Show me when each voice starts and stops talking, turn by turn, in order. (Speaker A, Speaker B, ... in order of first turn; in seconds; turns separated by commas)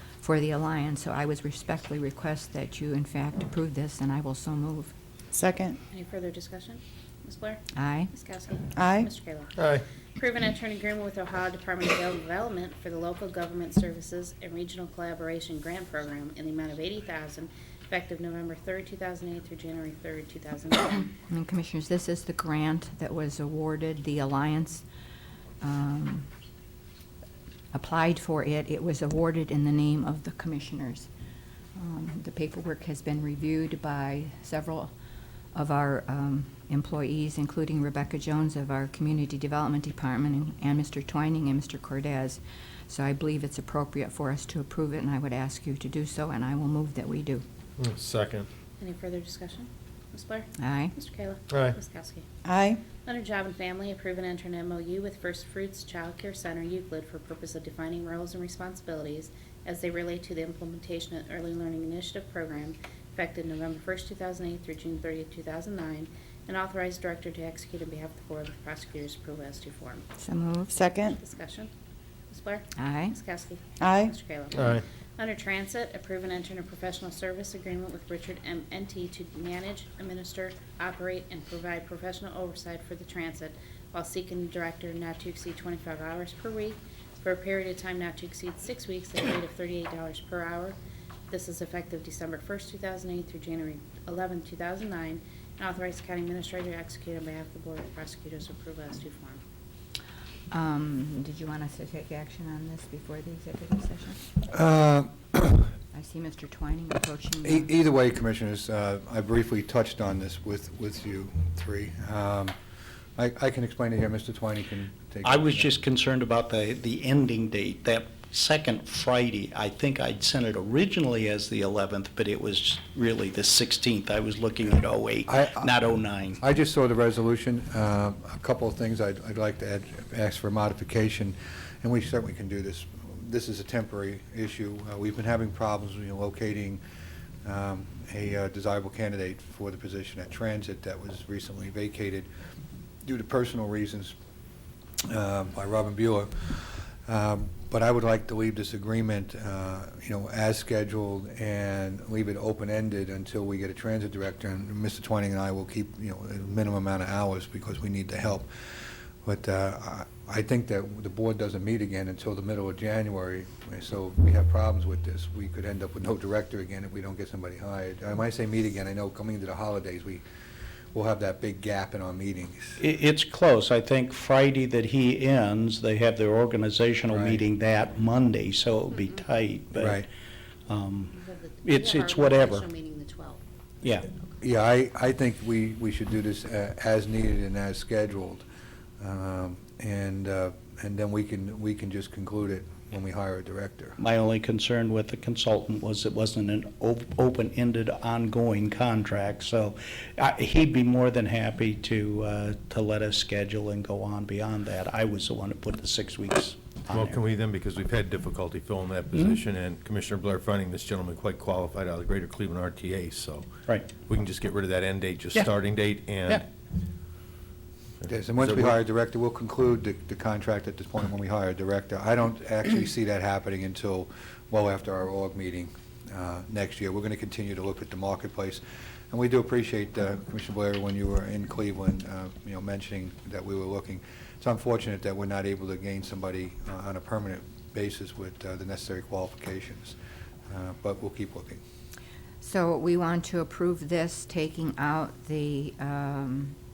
Speaker A: 0.2-4.9, Speaker B: 5.3-5.8, Speaker C: 5.9-9.6, Speaker A: 7.8-8.1, Speaker B: 8.8-9.1, Speaker D: 9.6-9.8, Speaker C: 10.2-21.1, Speaker A: 21.3-24.9, Speaker A: 25.6-26.3, Speaker A: 27.7-31.1, Speaker A: 31.8-34.9, Speaker A: 35.5-47.5, Speaker D: 47.8-48.5, Speaker C: 48.8-52.2, Speaker A: 50.6-50.9, Speaker D: 51.5-51.8, Speaker B: 52.5-52.8, Speaker C: 53.0-70.1, Speaker A: 70.2-70.8, Speaker B: 70.8-71.1, Speaker C: 70.8-71.7, Speaker C: 72.3-90.8, Speaker A: 72.8-73.2, Speaker B: 73.8-74.1, Speaker D: 74.5-74.8, Speaker C: 91.3-99.4, Speaker A: 100.5-104.2, Speaker E: 104.5-105.7, Speaker A: 105.9-107.7, Speaker E: 107.4-112.5, Speaker E: 113.2-115.7, Speaker F: 115.2-126.4, Speaker E: 125.3-125.7, Speaker E: 126.4-136.8, Speaker E: 137.4-142.3, Speaker E: 143.0-144.1, Speaker E: 145.0-170.2, Speaker E: 170.9-172.8, Speaker F: 172.8-180.1, Speaker E: 177.1-177.4, Speaker E: 179.8-180.1, Speaker F: 180.7-182.7, Speaker C: 181.1-183.4, Speaker F: 183.8-184.1, Speaker E: 184.4-188.4, Speaker E: 189.0-194.0, Speaker F: 194.0-207.2, Speaker D: 206.9-216.4, Speaker D: 218.0-218.8, Speaker E: 218.1-240.0, Speaker E: 240.5-241.6, Speaker A: 242.4-246.6